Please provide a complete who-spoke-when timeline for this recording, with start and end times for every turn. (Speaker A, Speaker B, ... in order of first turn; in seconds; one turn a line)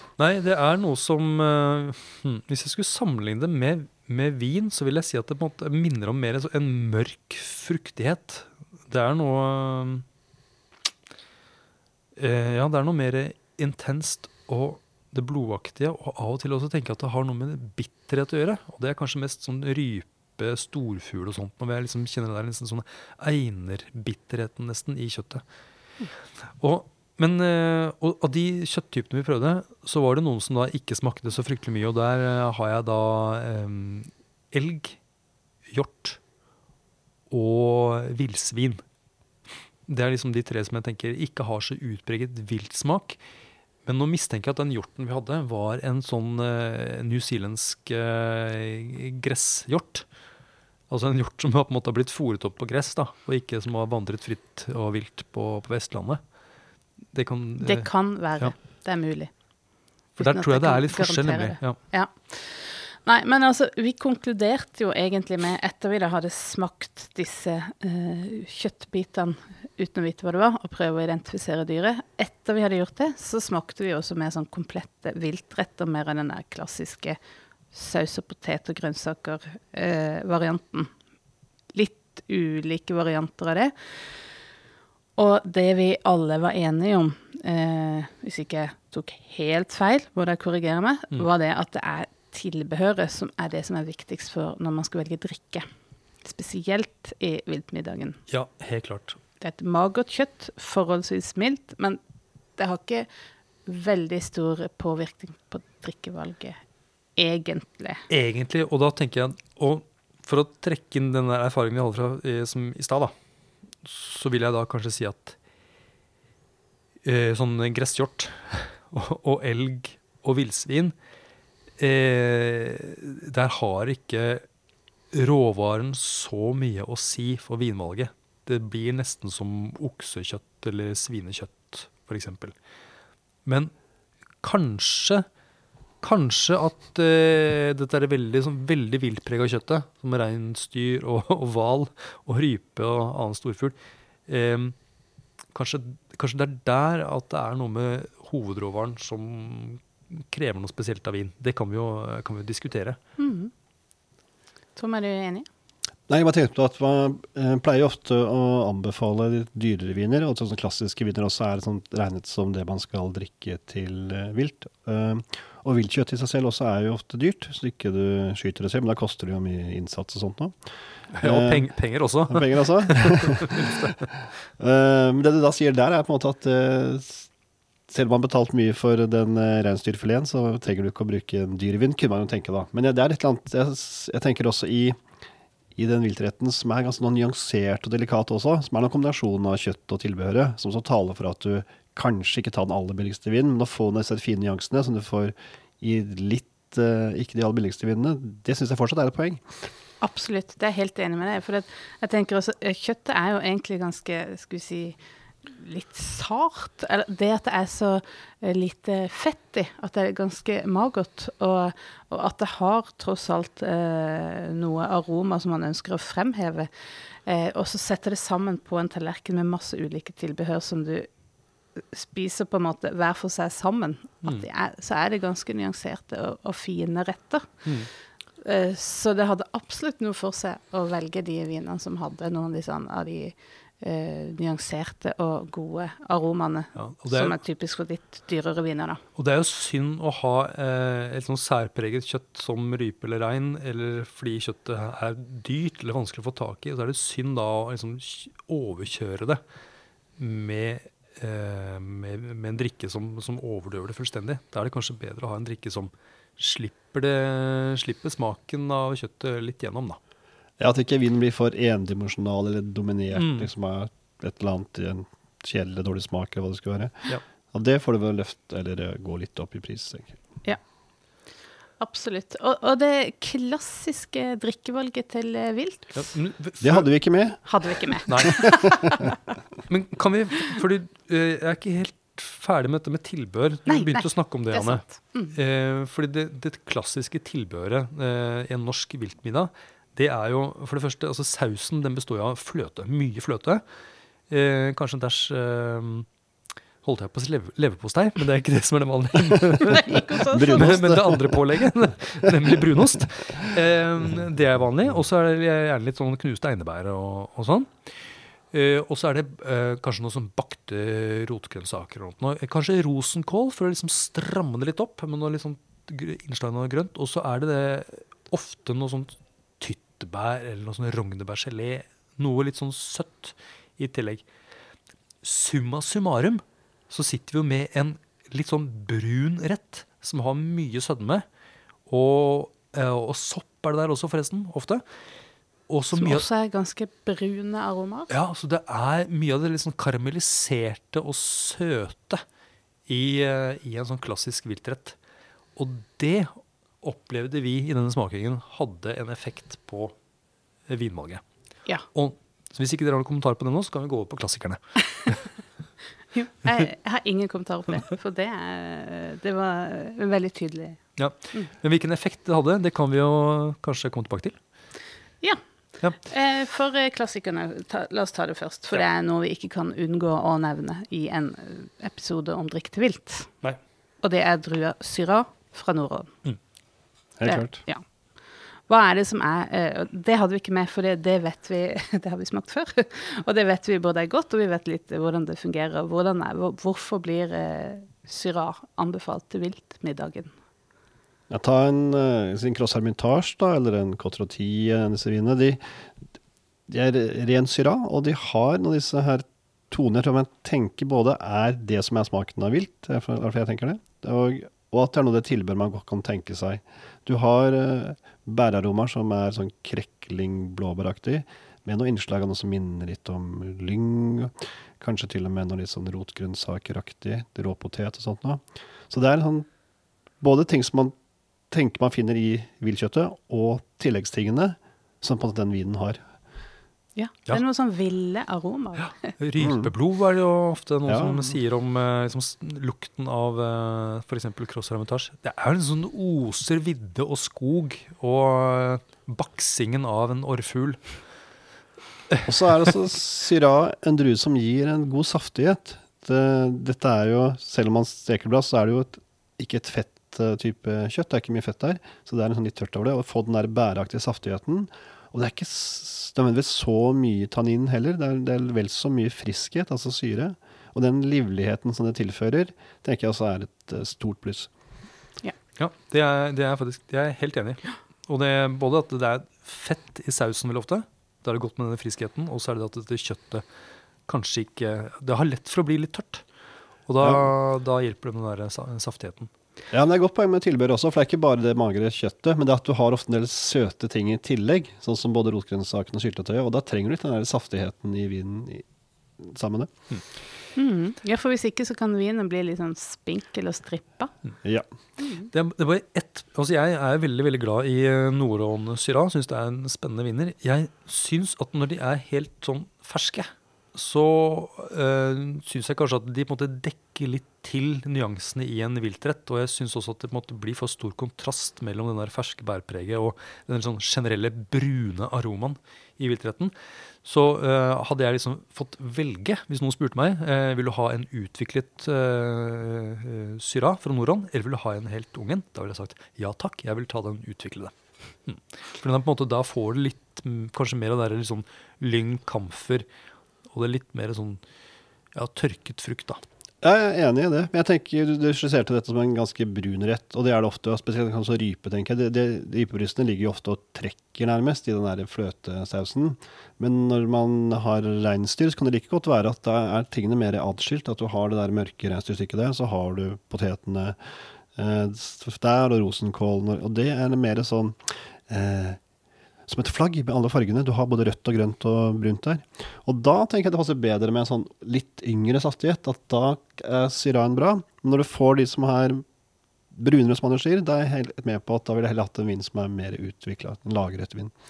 Speaker A: 0.2-10.1
Speaker A: 12.2-25.4
Speaker A: 26.6-35.0
Speaker A: 35.7-36.2
Speaker A: 37.3-38.8
Speaker A: 39.9-43.2
Speaker A: 43.9-50.1
Speaker A: 50.9-56.2
Speaker A: 57.1-58.5
Speaker B: 57.6-59.3
Speaker A: 60.2-61.8
Speaker B: 60.2-77.2
Speaker B: 77.7-80.9
Speaker B: 81.7-83.7
Speaker B: 85.2-95.7
Speaker B: 96.2-98.2
Speaker A: 98.3-99.2
Speaker B: 99.4-102.0
Speaker B: 102.6-103.1
Speaker B: 103.7-106.6
Speaker B: 107.2-108.0
Speaker A: 108.1-113.1
Speaker A: 113.8-115.4
Speaker A: 117.0-120.9
Speaker A: 121.8-124.4
Speaker A: 125.1-132.5
Speaker A: 133.4-133.7
Speaker A: 134.4-135.3
Speaker A: 136.0-143.8
Speaker A: 144.3-144.8
Speaker A: 145.5-153.0
Speaker B: 153.2-153.5
Speaker B: 154.8-155.5
Speaker C: 156.1-170.6
Speaker A: 171.1-174.0
Speaker C: 171.2-171.7
Speaker C: 172.3-177.3
Speaker C: 177.9-185.0
Speaker C: 185.8-199.6
Speaker B: 200.0-221.1
Speaker B: 221.8-227.6
Speaker B: 228.4-239.0
Speaker A: 236.8-237.4
Speaker A: 239.2-249.4
Speaker A: 250.2-260.0
Speaker C: 260.6-270.2
Speaker A: 263.1-263.5
Speaker B: 271.8-276.0
Speaker A: 276.0-276.9
Speaker C: 276.6-277.4
Speaker B: 277.5-279.2
Speaker A: 278.1-278.9
Speaker C: 278.2-278.6
Speaker A: 279.7-293.6
Speaker B: 283.7-285.4
Speaker A: 294.3-296.1
Speaker A: 296.8-324.2
Speaker B: 299.6-300.8
Speaker C: 300.3-301.7
Speaker C: 302.3-302.6
Speaker A: 325.2-331.2
Speaker A: 331.9-334.8
Speaker A: 335.7-336.2
Speaker B: 335.9-338.1
Speaker A: 338.1-342.2
Speaker A: 342.9-345.0
Speaker A: 345.6-349.9
Speaker A: 350.7-351.2
Speaker A: 351.9-355.3
Speaker B: 356.1-360.8
Speaker A: 361.0-364.4
Speaker B: 366.0-373.3
Speaker B: 374.0-376.1
Speaker C: 377.2-377.6
Speaker B: 377.3-377.9
Speaker B: 378.7-390.3
Speaker C: 391.3-395.6
Speaker C: 396.7-419.5
Speaker C: 420.2-420.9
Speaker C: 421.5-426.0
Speaker B: 427.0-429.1
Speaker A: 428.8-440.9
Speaker C: 429.4-429.7
Speaker C: 430.9-431.4
Speaker C: 442.3-464.5
Speaker A: 465.6-473.4
Speaker A: 474.1-476.2
Speaker A: 476.9-479.3
Speaker C: 479.7-488.7
Speaker C: 489.2-489.7
Speaker B: 490.6-494.1
Speaker B: 495.0-495.3
Speaker A: 495.3-527.7
Speaker A: 528.3-532.9
Speaker A: 533.5-534.4
Speaker A: 535.1-536.2
Speaker C: 536.6-554.0
Speaker C: 554.5-558.8
Speaker C: 559.5-569.0
Speaker C: 569.7-574.3